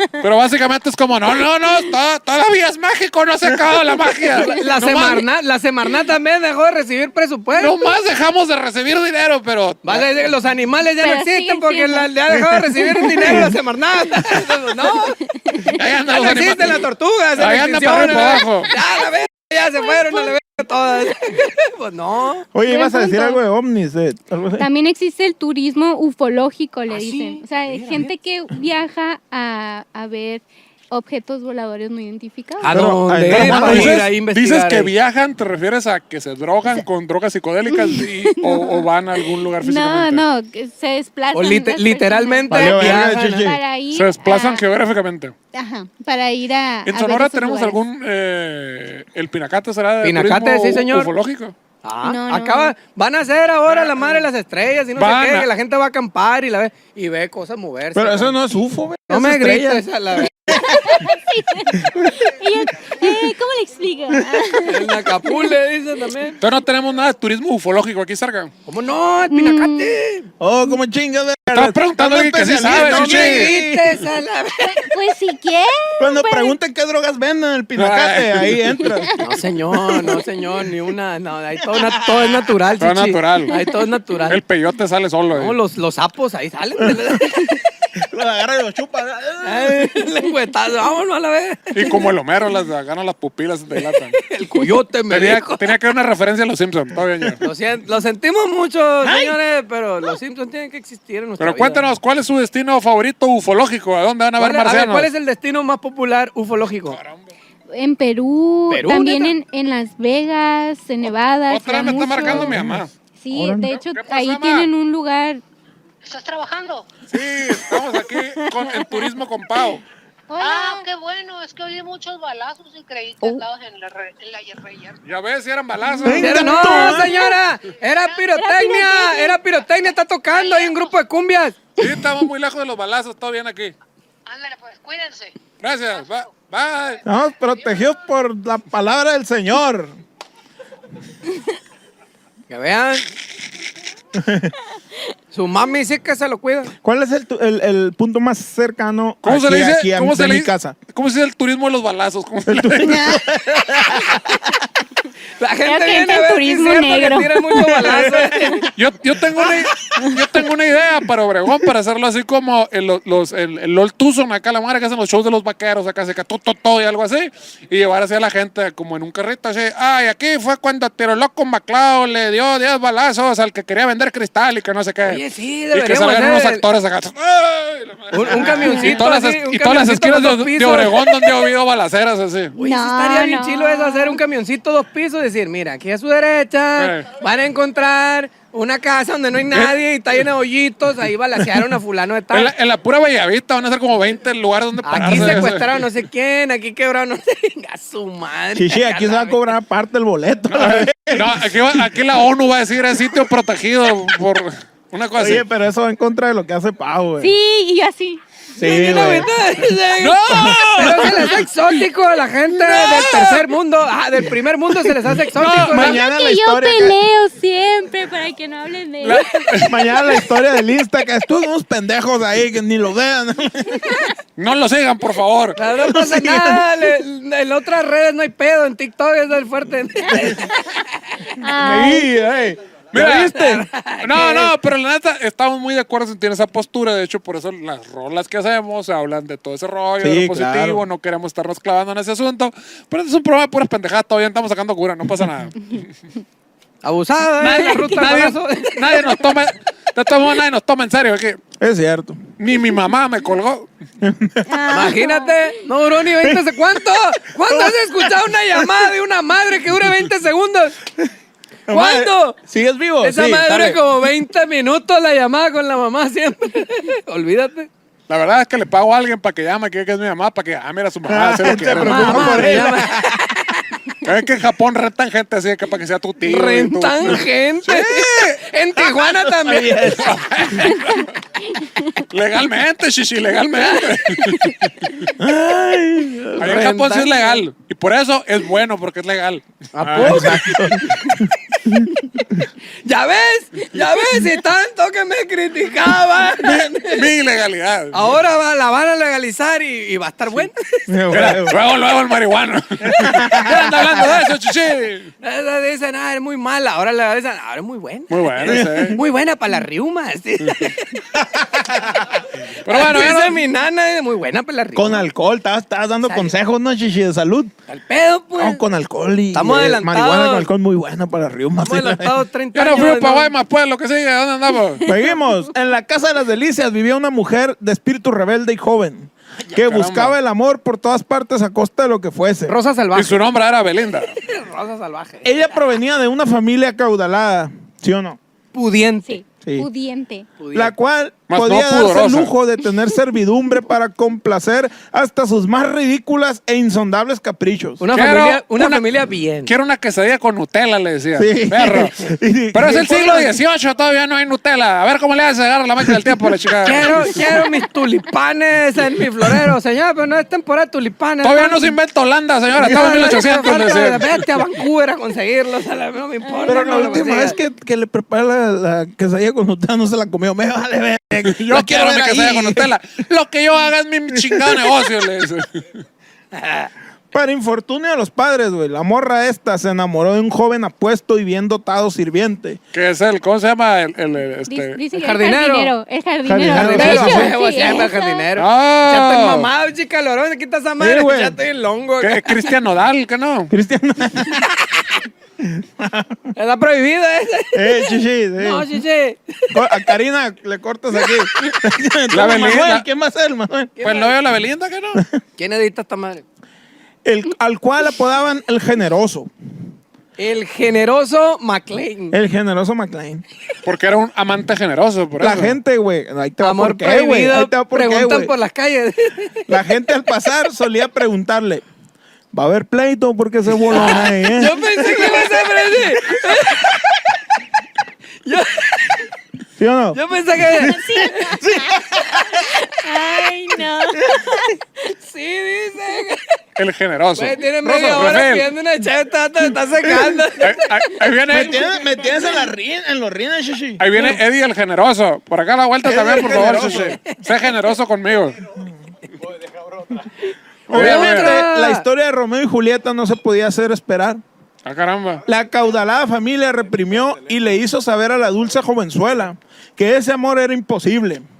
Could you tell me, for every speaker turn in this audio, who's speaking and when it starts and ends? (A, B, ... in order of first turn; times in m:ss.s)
0:00.2-0:05.2 A
0:04.3-0:07.7 B
0:07.6-0:10.0 A
0:09.8-0:15.2 B
0:11.0-0:12.1 C
0:12.3-0:13.6 D
0:12.8-0:13.5 C
0:14.9-0:15.8 C
0:15.7-0:18.7 A
0:16.0-0:22.5 B
0:19.8-0:21.1 C
0:22.5-0:24.7 D
0:22.6-0:23.4 C
0:24.6-0:32.8 C
0:26.9-0:28.1 B
0:32.6-0:34.9 B
0:32.7-0:34.0 D
0:33.3-0:40.2 A
0:37.7-0:44.6 C
0:41.3-0:43.5 B
0:42.5-0:43.6 D
0:43.9-0:45.3 A
0:45.5-0:47.8 C
0:46.8-0:51.5 A
0:50.0-0:51.1 B
0:51.8-0:58.3 B
0:52.0-0:52.7 C
0:53.7-0:54.2 A
0:55.0-0:55.5 A
0:57.9-1:01.1 D
0:59.1-1:00.6 B
1:00.5-1:05.1 C
1:04.6-1:06.4 B
1:06.4-1:08.5 A
1:08.7-1:10.3 B
1:09.3-1:09.9 C
1:10.4-1:14.0 D
1:11.5-1:13.6 A
1:12.7-1:14.9 B
1:14.6-1:16.6 C
1:16.0-1:19.1 D
1:17.8-1:18.8 A
1:19.2-1:24.4 B
1:21.7-1:22.5 D
1:22.8-1:23.6 A
1:23.5-1:23.8 C
1:24.3-1:25.6 A
1:25.3-1:27.6 B
1:26.8-1:27.2 D
1:27.9-1:30.0 D
1:29.4-1:32.0 B
1:31.7-1:34.2 A
1:33.9-1:35.7 B
1:35.1-1:37.4 A
1:37.4-1:41.8 B
1:39.0-1:39.3 D
1:41.4-1:45.1 A
1:44.4-1:47.0 B
1:46.8-1:47.3 A
1:47.7-1:52.6 C
1:48.7-1:49.3 B
1:51.5-1:52.9 A
1:52.2-1:53.7 D
1:53.2-1:55.4 C
1:53.7-1:54.7 A
1:56.0-1:56.9 E
1:57.1-1:59.8 A
1:58.4-1:59.1 C
2:00.3-2:00.8 C
2:00.4-2:05.0 E
2:05.0-2:06.6 A
2:06.0-2:07.2 D
2:06.1-2:07.4 C
2:06.1-2:11.6 B
2:07.9-2:08.2 E
2:08.3-2:09.4 C
2:10.3-2:10.9 E
2:11.8-2:13.7 A
2:14.3-2:15.4 E
2:15.6-2:17.0 A
2:15.9-2:16.3 E
2:17.0-2:19.9 D
2:22.5-2:23.0 B
2:24.1-2:24.5 D
2:25.3-2:26.7 B
2:26.8-2:30.8 D
2:29.2-2:33.1 A
2:32.5-2:34.6 D
2:35.4-2:38.7 B
2:35.6-2:38.5 C
2:37.8-2:38.6 D
2:38.7-3:02.5 A
2:55.0-2:56.6 B
2:58.1-3:01.3 B
2:58.5-2:59.0 C
3:02.5-3:12.5 B
3:02.6-3:04.2 C
3:06.8-3:07.1 A
3:12.3-3:15.9 A
3:14.8-3:19.4 B
3:15.0-3:15.5 D
3:18.5-3:21.8 D
3:20.5-3:25.4 A
3:25.2-3:27.3 D
3:27.2-3:29.3 C
3:28.6-3:29.3 D
3:28.6-3:35.9 B
3:30.0-3:31.5 A
3:30.3-3:30.9 D
3:32.6-3:33.4 A
3:35.3-3:36.0 A
3:35.5-3:37.0 D
3:35.8-3:40.2 C
3:39.0-3:39.8 A
3:39.7-3:43.9 D
3:44.4-3:45.6 A
3:45.6-3:51.3 B
3:45.8-3:46.6 D
3:50.1-3:50.4 D
3:51.4-3:52.1 C
3:51.5-3:53.7 D
3:52.9-3:53.5 A
3:53.2-3:54.5 B
3:54.0-4:05.9 A
4:00.0-4:00.8 D
4:06.8-4:09.2 B
4:07.4-4:11.4 A
4:11.6-4:12.2 D
4:12.4-4:13.7 A
4:14.0-4:14.8 D
4:14.4-4:15.6 C
4:14.7-4:20.8 B
4:16.2-4:16.6 D
4:17.4-4:18.7 D
4:21.7-4:23.8 D
4:21.7-4:22.4 B
4:23.0-4:27.7 B
4:28.1-4:32.8 A
4:31.0-4:33.2 D
4:31.5-4:33.6 B
4:34.0-4:38.4 A
4:36.2-4:39.8 B
4:38.8-4:40.1 D
4:39.8-4:41.2 A
4:42.1-4:45.0 A
4:43.6-4:43.9 B
4:45.2-4:46.7 D
4:46.4-4:47.4 B
4:46.4-4:50.6 A
4:49.7-4:51.1 B
4:50.0-4:52.4 D
4:52.8-4:57.0 B
4:56.4-4:58.1 A
4:57.9-5:01.0 B
5:00.9-5:01.6 D
5:01.1-5:05.1 A
5:02.8-5:04.0 D
5:05.2-5:11.0 B
5:08.1-5:09.0 A
5:08.4-5:09.0 D
5:10.4-5:10.7 A
5:11.2-5:12.2 D
5:12.6-5:13.4 A
5:12.7-5:15.0 B
5:14.7-5:17.5 D
5:16.0-5:16.3 B
5:17.7-5:18.6 B
5:18.4-5:22.2 D
5:19.3-5:20.5 B
5:21.6-5:23.3 B
5:22.5-5:24.8 A
5:24.8-5:25.3 C
5:24.8-5:32.6 D
5:29.5-5:30.1 A
5:32.5-5:33.2 B
5:32.9-5:34.1 A
5:34.1-5:35.4 B
5:35.2-5:38.2 D
5:38.5-5:39.2 B
5:39.0-5:40.3 C
5:39.4-5:39.7 D
5:40.4-5:40.7 B
5:40.5-5:47.8 D
5:41.3-5:42.3 A
5:47.8-5:49.5 B
5:47.9-5:48.9 A
5:49.4-5:57.2 A
5:51.2-5:53.4 D
5:56.6-6:01.7 B
6:01.2-6:04.2 A
6:02.6-6:07.4 B
6:06.2-6:07.1 C
6:06.4-6:12.7 D
6:11.3-6:15.6 A
6:14.1-6:14.7 D
6:16.3-6:16.7 B
6:17.1-6:22.6 D
6:22.7-6:24.8 A
6:24.5-6:28.3 C
6:24.9-6:25.7 B
6:26.2-6:27.4 D
6:26.5-6:32.4 B
6:28.4-6:29.5 A
6:30.8-6:31.4 D
6:32.0-6:33.5 A
6:33.5-6:34.8 D
6:35.4-6:36.3 D
6:36.3-6:39.6 B
6:37.5-6:38.7 D
6:39.5-6:43.7 D
6:42.1-6:42.8 A
6:43.8-6:44.1 B
6:43.8-6:45.0 A
6:45.4-6:46.2 B
6:47.0-6:49.3 D
6:50.2-6:52.2 B
6:52.1-6:53.2 D
6:53.6-6:55.6 A
6:55.2-6:58.3 D
6:56.4-6:59.5 B
6:59.5-7:01.6 D
7:02.3-7:05.4 D
7:03.7-7:07.0 B
7:06.3-7:06.6 D
7:08.2-7:09.0 B
7:09.6-7:12.4 D
7:09.9-7:11.4 B
7:10.6-7:11.8 C
7:12.8-7:14.5 C
7:13.9-7:14.5 D
7:14.8-7:16.4 B
7:16.6-7:18.5 A
7:17.2-7:20.6 B
7:17.6-7:18.2 D
7:19.8-7:20.3 D
7:20.4-7:21.7 A
7:21.3-7:23.8 D
7:23.8-7:28.4 A
7:23.9-7:24.2 B
7:25.8-7:27.0 D
7:26.8-7:27.1 B
7:30.7-7:31.4 A
7:30.7-7:34.2 D
7:30.7-7:31.8 B
7:34.6-7:35.2 A
7:35.2-7:41.2 D